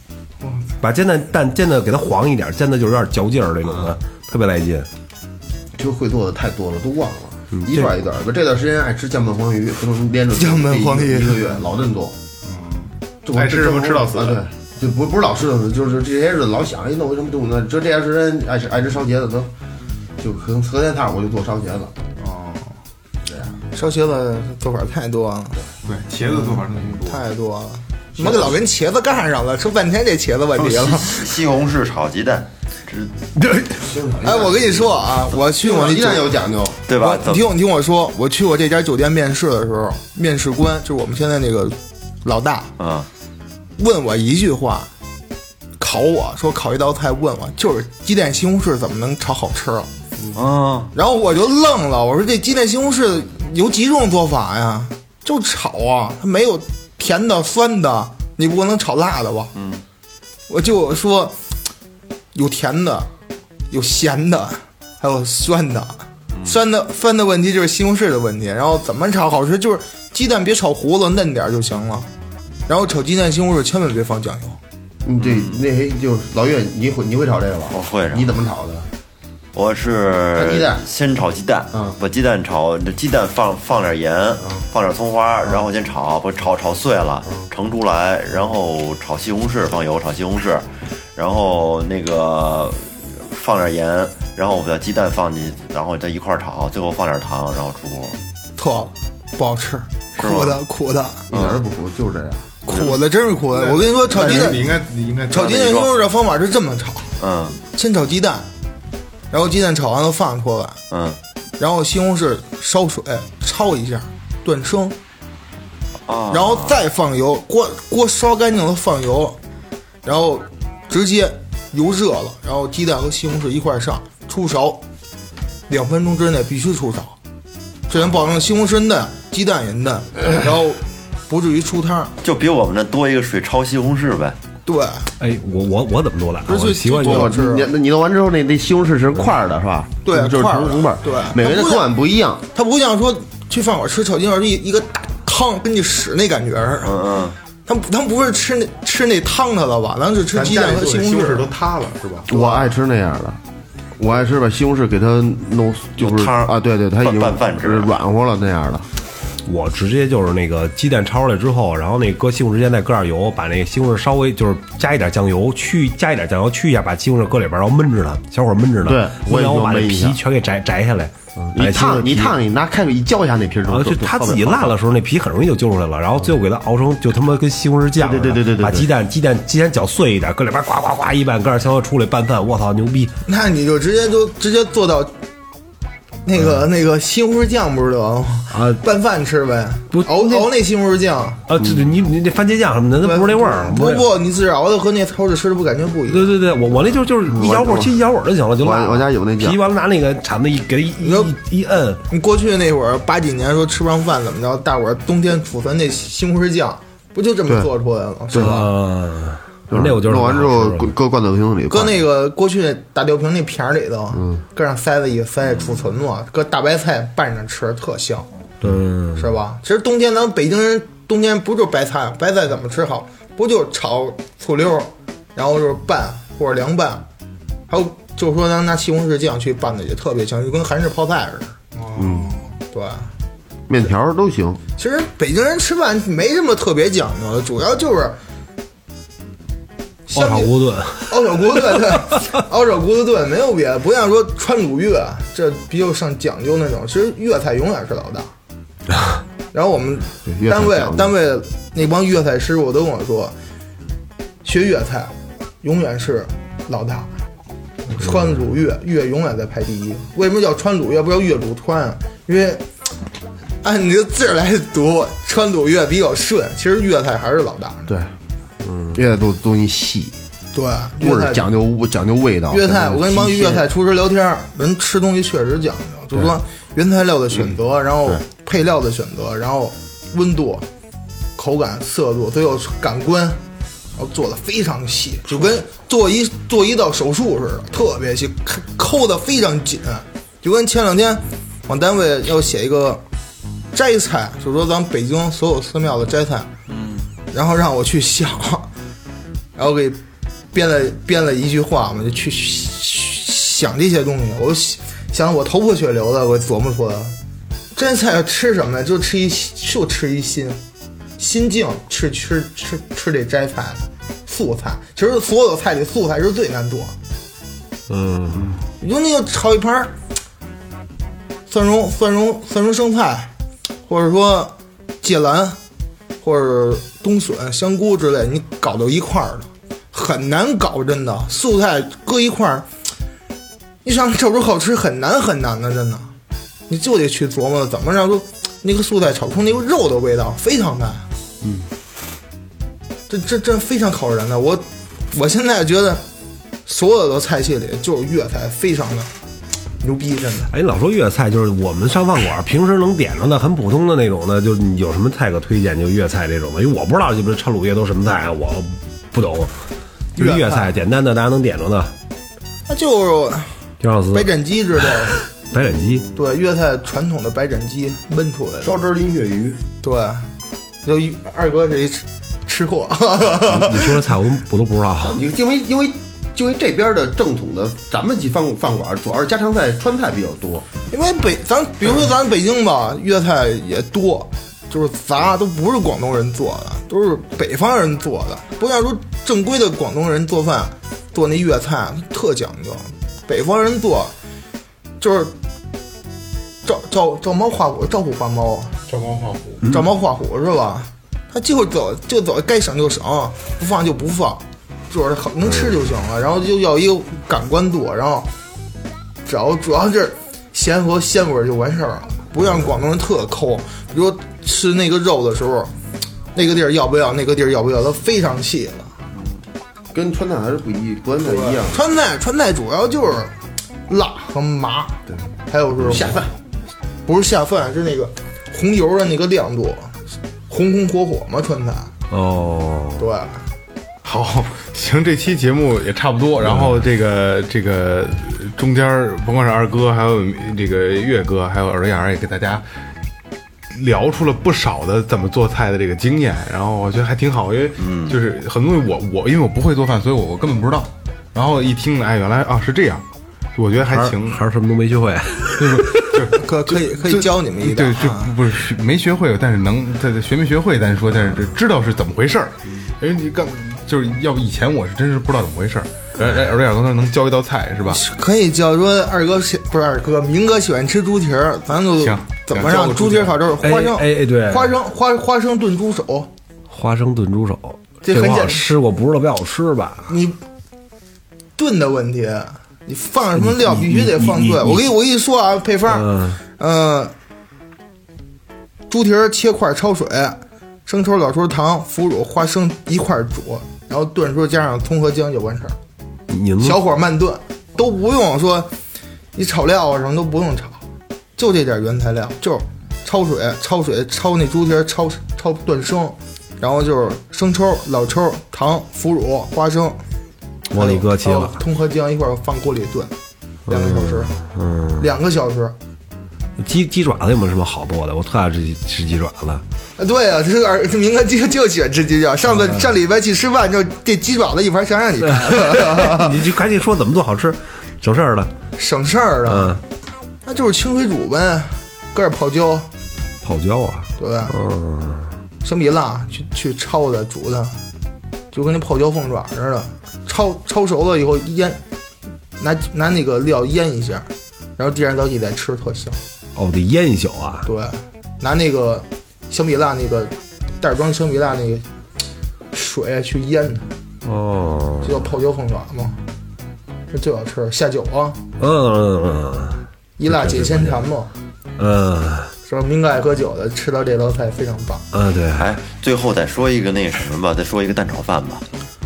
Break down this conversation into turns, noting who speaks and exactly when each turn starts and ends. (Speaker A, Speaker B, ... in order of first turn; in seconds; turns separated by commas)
Speaker A: 0.4-0.7, Speaker B: 0.8-4.9, Speaker C: 5.7-12.2, Speaker B: 7.5-7.9, Speaker D: 10.3-11.4, Speaker A: 12.4-14.4, Speaker C: 13.2-19.5, Speaker C: 20.2-21.9, Speaker A: 22.2-22.7, Speaker D: 23.7-25.6, Speaker A: 25.8-27.2, Speaker D: 27.1-31.4, Speaker C: 28.2-28.6, Speaker E: 30.6-33.2, Speaker C: 33.6-36.8, Speaker D: 34.2-36.3, Speaker E: 36.9-37.5, Speaker D: 36.9-42.7, Speaker E: 42.8-43.1, Speaker D: 43.8-44.9, Speaker D: 45.8-49.9, Speaker E: 50.3-50.9, Speaker D: 50.9-59.5, Speaker E: 59.5-59.8, Speaker D: 60.5-61.4, Speaker D: 62.3-63.1, Speaker D: 63.7-72.1, Speaker D: 72.7-74.6, Speaker C: 75.0-78.9, Speaker E: 75.2-75.6, Speaker E: 77.7-78.3, Speaker E: 79.5-98.2, Speaker C: 80.4-80.8, Speaker D: 98.6-101.2, Speaker E: 100.2-100.6, Speaker C: 101.3-102.5, Speaker E: 101.3-101.6, Speaker D: 102.7-104.6, Speaker E: 102.7-103.0, Speaker A: 103.5-105.6, Speaker C: 104.1-104.6, Speaker D: 105.3-107.1, Speaker E: 105.3-105.9, Speaker E: 107.2-107.6, Speaker D: 107.7-108.5, Speaker D: 109.3-110.8, Speaker E: 110.9-111.2, Speaker D: 111.6-115.0, Speaker E: 116.1-116.8, Speaker D: 116.3-119.4, Speaker D: 120.0-124.8, Speaker D: 125.7-127.2, Speaker D: 127.9-132.1, Speaker E: 132.2-134.4, Speaker D: 134.7-135.1, Speaker B: 135.2-137.3, Speaker D: 136.5-137.7, Speaker C: 137.0-142.4, Speaker D: 140.0-141.9, Speaker D: 142.5-147.0, Speaker E: 146.8-147.4, Speaker D: 147.7-151.5, Speaker A: 150.3-152.5, Speaker C: 152.3-153.4, Speaker C: 154.0-158.9, Speaker E: 156.0-157.9, Speaker B: 159.4-172.3, Speaker C: 168.8-170.2, Speaker C: 171.4-174.7, Speaker B: 173.7-183.1, Speaker C: 178.0-178.9, Speaker D: 183.3-185.1, Speaker D: 186.2-191.4, Speaker B: 188.5-188.8, Speaker B: 189.9-190.5, Speaker B: 191.5-194.1, Speaker C: 191.6-191.9, Speaker D: 193.0-196.3, Speaker B: 196.1-202.0, Speaker C: 197.3-198.0, Speaker C: 198.6-199.6, Speaker D: 201.0-201.3, Speaker D: 202.1-208.7, Speaker C: 208.3-208.6, Speaker B: 208.3-210.9, Speaker C: 209.7-212.0, Speaker D: 211.7-218.3, Speaker C: 214.2-214.4, Speaker B: 218.6-219.3, Speaker D: 219.2-227.1, Speaker D: 227.7-231.6, Speaker A: 231.7-232.4, Speaker C: 232.0-232.3, Speaker D: 232.7-233.1, Speaker C: 233.7-234.6, Speaker D: 234.8-238.2, Speaker D: 240.1-248.3, Speaker B: 240.1-242.3, Speaker D: 249.5-253.3, Speaker C: 250.2-251.1, Speaker D: 254.4-257.1, Speaker D: 257.9-262.6, Speaker D: 263.6-267.9, Speaker C: 267.9-268.1, Speaker B: 268.6-268.9, Speaker C: 268.9-270.1, Speaker D: 270.5-271.4, Speaker C: 271.0-273.6, Speaker D: 272.5-280.6, Speaker D: 281.4-283.4, Speaker D: 284.0-293.0, Speaker D: 293.7-296.5, Speaker E: 296.7-297.1, Speaker D: 297.3-298.7, Speaker D: 299.6-300.0, Speaker D: 300.5-307.1, Speaker D: 307.7-310.6, Speaker D: 311.2-316.9, Speaker B: 317.9-318.6, Speaker D: 318.8-319.9, Speaker D: 321.5-323.3, Speaker D: 323.9-325.6, Speaker D: 326.2-332.7, Speaker D: 333.8-336.1, Speaker D: 336.7-341.1, Speaker D: 343.1-346.0, Speaker D: 346.6-349.1, Speaker D: 349.8-350.5, Speaker B: 350.5-359.6, Speaker B: 360.1-361.9, Speaker D: 360.1-360.7, Speaker D: 362.7-363.6, Speaker B: 363.8-364.3, Speaker D: 364.1-365.2, Speaker B: 365.0-366.1, Speaker C: 365.6-365.8, Speaker D: 366.1-368.8, Speaker C: 368.6-369.6, Speaker D: 369.8-370.3, Speaker D: 370.8-374.0, Speaker B: 373.5-375.2, Speaker C: 375.0-380.7, Speaker D: 380.9-394.1, Speaker D: 395.0-395.3, Speaker D: 396.6-398.8, Speaker A: 398.9-399.7, Speaker D: 399.6-408.3, Speaker D: 409.2-415.7, Speaker D: 416.3-418.9, Speaker C: 419.9-421.8, Speaker D: 421.2-423.3, Speaker D: 423.9-426.2, Speaker C: 425.8-426.3, Speaker D: 427.1-431.9, Speaker B: 432.1-433.1, Speaker D: 433.0-433.4, Speaker A: 434.0-442.6, Speaker B: 436.4-436.8, Speaker A: 443.7-453.1, Speaker E: 447.8-448.2, Speaker A: 453.6-454.4, Speaker B: 453.9-456.3, Speaker A: 455.6-468.0, Speaker D: 456.3-458.4, Speaker D: 467.9-476.3, Speaker A: 472.0-473.4, Speaker B: 473.6-474.8, Speaker B: 476.7-480.1, Speaker D: 478.0-478.7, Speaker D: 480.1-480.4, Speaker D: 481.6-487.1, Speaker B: 483.4-484.8, Speaker B: 485.9-486.4, Speaker D: 488.9-495.8, Speaker B: 496.3-496.8, Speaker D: 496.6-498.7, Speaker D: 499.3-500.8, Speaker D: 501.4-510.0, Speaker B: 510.7-511.6, Speaker D: 510.7-513.1, Speaker D: 513.7-514.3, Speaker B: 513.7-515.1, Speaker D: 515.0-515.7, Speaker B: 516.6-519.6, Speaker D: 520.0-526.4, Speaker B: 525.4-528.5, Speaker D: 528.8-529.8, Speaker B: 529.5-529.8, Speaker D: 530.5-532.9, Speaker B: 533.4-535.4, Speaker D: 534.2-534.5, Speaker D: 535.6-537.8, Speaker D: 538.5-541.8, Speaker D: 542.6-546.2, Speaker B: 546.5-547.7, Speaker D: 547.6-551.9, Speaker D: 552.7-553.9, Speaker B: 554.2-555.2, Speaker D: 555.0-556.2, Speaker D: 557.1-558.4, Speaker B: 558.6-561.0, Speaker D: 560.2-561.3, Speaker B: 561.8-562.5, Speaker D: 562.6-565.0, Speaker B: 565.1-565.7, Speaker E: 565.5-568.6